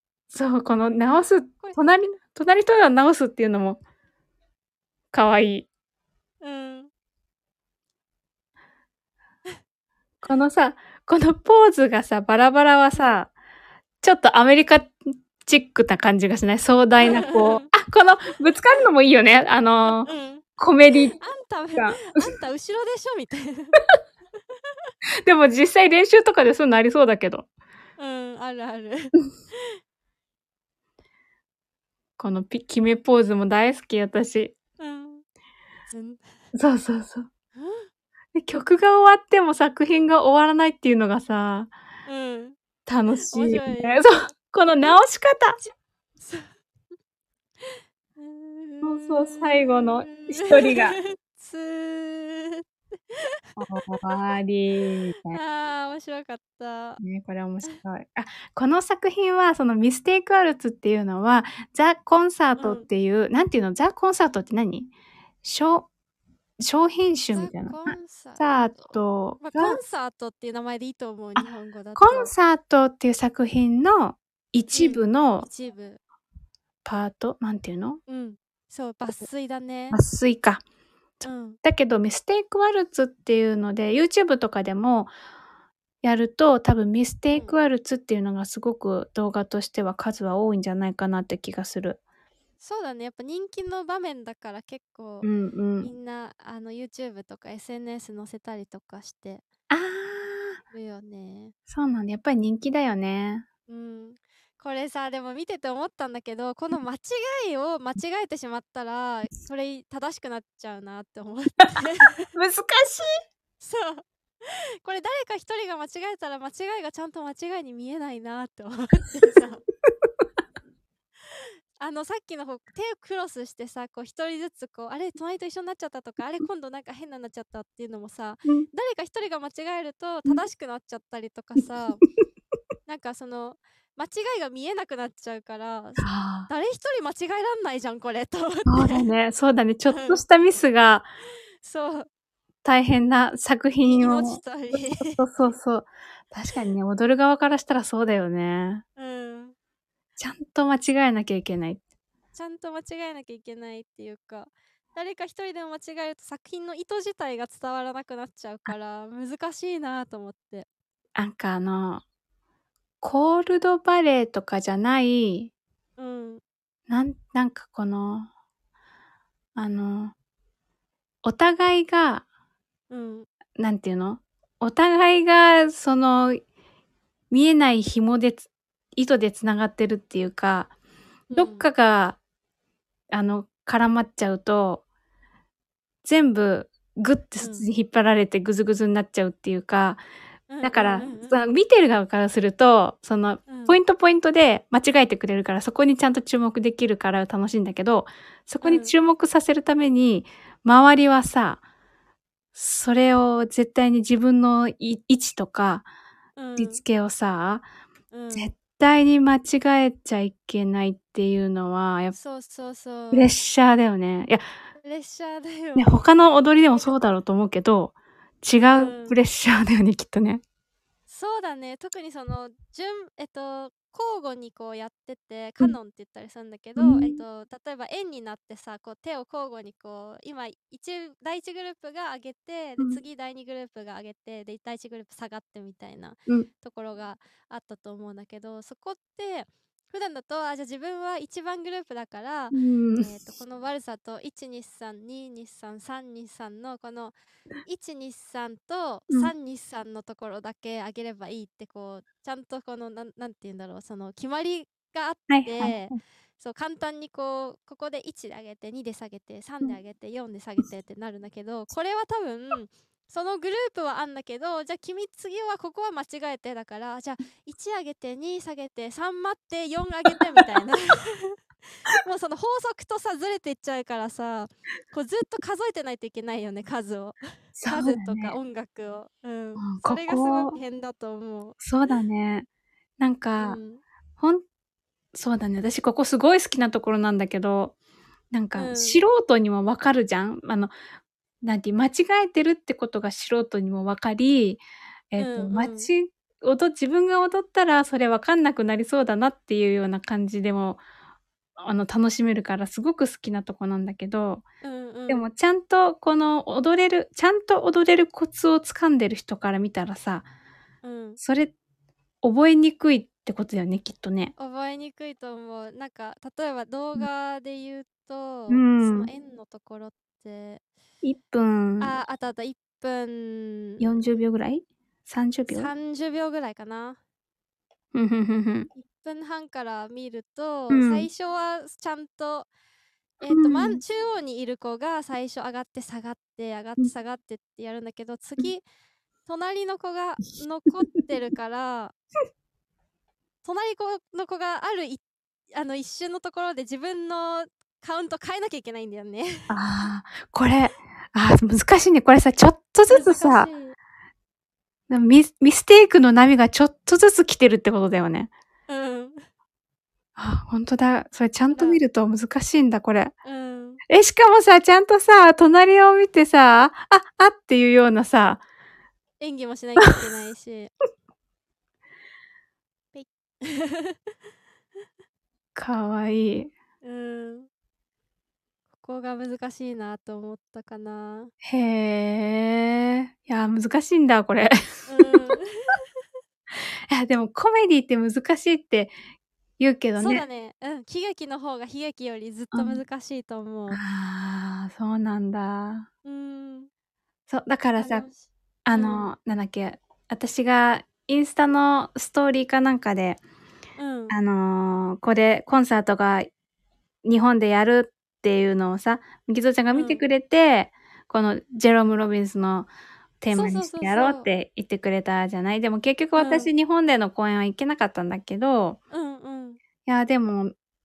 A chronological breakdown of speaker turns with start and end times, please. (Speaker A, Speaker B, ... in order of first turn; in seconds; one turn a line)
Speaker A: 0.3-3.8
Speaker A: 5.1-5.7
Speaker B: 6.4-6.9
Speaker A: 10.2-13.3
Speaker A: 14.0-21.2
Speaker B: 17.0-17.7
Speaker B: 19.9-20.4
Speaker B: 21.1-23.8
Speaker A: 21.8-22.3
Speaker A: 25.2-27.5
Speaker B: 28.0-29.8
Speaker A: 32.2-34.6
Speaker B: 34.8-35.2
Speaker B: 35.9-36.2
Speaker A: 36.5-37.3
Speaker B: 37.6-37.9
Speaker A: 38.3-41.7
Speaker B: 42.1-42.6
Speaker A: 42.9-45.6
Speaker B: 43.3-44.1
Speaker B: 45.6-46.5
Speaker B: 47.6-53.4
Speaker A: 48.8-51.0
Speaker A: 53.6-55.4
Speaker B: 55.3-57.0
Speaker A: 57.0-64.9
Speaker B: 62.6-62.9
Speaker A: 65.4-65.9
Speaker A: 66.6-69.8
Speaker B: 67.3-68.5
Speaker B: 69.4-72.3
Speaker A: 71.4-75.5
Speaker B: 74.7-76.0
Speaker A: 76.8-78.0
Speaker B: 78.1-80.0
Speaker A: 79.9-80.6
Speaker B: 81.2-81.6
Speaker A: 81.6-85.1
Speaker A: 86.0-92.0
Speaker B: 92.6-95.3
Speaker A: 95.2-95.9
Speaker B: 95.8-99.4
Speaker A: 99.7-100.6
Speaker B: 100.7-101.5
Speaker A: 101.7-103.5
Speaker B: 103.7-112.3
Speaker A: 112.3-113.2
Speaker B: 113.6-119.6
Speaker B: 121.3-132.1
Speaker B: 132.9-139.1
Speaker A: 136.0-136.5
Speaker A: 138.7-141.1
Speaker B: 139.9-140.2
Speaker B: 141.6-142.1
Speaker A: 142.6-148.8
Speaker B: 143.8-145.2
Speaker B: 149.0-149.6
Speaker A: 150.2-151.8
Speaker B: 152.3-160.7
Speaker A: 161.2-162.0
Speaker A: 163.0-165.5
Speaker B: 166.0-166.4
Speaker A: 166.9-168.3
Speaker A: 169.6-170.1
Speaker A: 171.2-172.2
Speaker B: 172.9-173.3
Speaker A: 173.6-176.4
Speaker A: 177.3-180.7
Speaker B: 181.3-181.7
Speaker A: 181.3-182.2
Speaker A: 183.1-184.8
Speaker A: 186.0-190.0
Speaker B: 187.4-187.7
Speaker B: 190.5-191.4
Speaker A: 190.6-201.6
Speaker B: 193.5-193.8
Speaker B: 198.6-198.9
Speaker A: 202.6-205.9
Speaker B: 206.3-206.8
Speaker A: 206.6-207.7
Speaker B: 208.1-208.5
Speaker A: 208.3-212.2
Speaker B: 212.2-213.3
Speaker A: 213.1-214.4
Speaker B: 214.8-215.9
Speaker A: 215.8-220.4
Speaker B: 218.7-219.2
Speaker B: 221.1-271.4
Speaker A: 226.8-227.2
Speaker A: 242.5-243.1
Speaker A: 255.3-256.0
Speaker B: 271.9-281.6
Speaker A: 277.6-278.4
Speaker A: 279.6-280.6
Speaker A: 281.6-282.5
Speaker A: 283.0-283.6
Speaker B: 283.4-283.8
Speaker A: 284.2-284.4
Speaker A: 285.1-287.7
Speaker A: 288.3-290.7
Speaker B: 288.6-289.0
Speaker A: 291.4-300.8
Speaker B: 295.2-295.9
Speaker A: 301.6-304.4
Speaker B: 304.6-305.3
Speaker A: 305.1-310.3
Speaker B: 310.8-311.2
Speaker A: 311.2-311.5
Speaker A: 312.2-314.3
Speaker B: 314.4-320.6
Speaker A: 318.5-319.1
Speaker A: 321.0-321.9
Speaker B: 321.8-323.9
Speaker A: 323.8-325.7
Speaker B: 325.5-327.0
Speaker A: 327.9-328.7
Speaker B: 328.7-332.5
Speaker A: 330.7-331.1
Speaker B: 333.2-338.6
Speaker A: 333.3-333.8
Speaker B: 339.2-341.9
Speaker B: 343.4-349.5
Speaker A: 349.5-353.5
Speaker B: 352.9-353.8
Speaker A: 354.9-358.3
Speaker B: 358.7-359.3
Speaker A: 360.2-363.1
Speaker B: 361.5-361.8
Speaker B: 363.2-363.8
Speaker A: 363.9-368.4
Speaker B: 369.2-370.7
Speaker B: 372.9-374.1
Speaker A: 375.6-376.5
Speaker B: 376.8-377.5
Speaker B: 378.8-381.3
Speaker A: 381.4-385.3
Speaker B: 384.9-385.8
Speaker A: 386.9-388.9
Speaker A: 389.6-390.2
Speaker B: 390.0-393.8
Speaker A: 392.5-392.8
Speaker A: 393.7-395.9
Speaker B: 396.1-396.7
Speaker A: 397.3-398.1
Speaker B: 397.8-399.1
Speaker A: 398.6-403.2
Speaker B: 403.8-404.1
Speaker A: 404.1-406.3
Speaker A: 407.1-412.7
Speaker B: 409.7-410.0
Speaker A: 413.2-418.8
Speaker B: 413.3-414.3
Speaker B: 416.2-416.5
Speaker B: 418.9-419.6
Speaker A: 419.8-420.5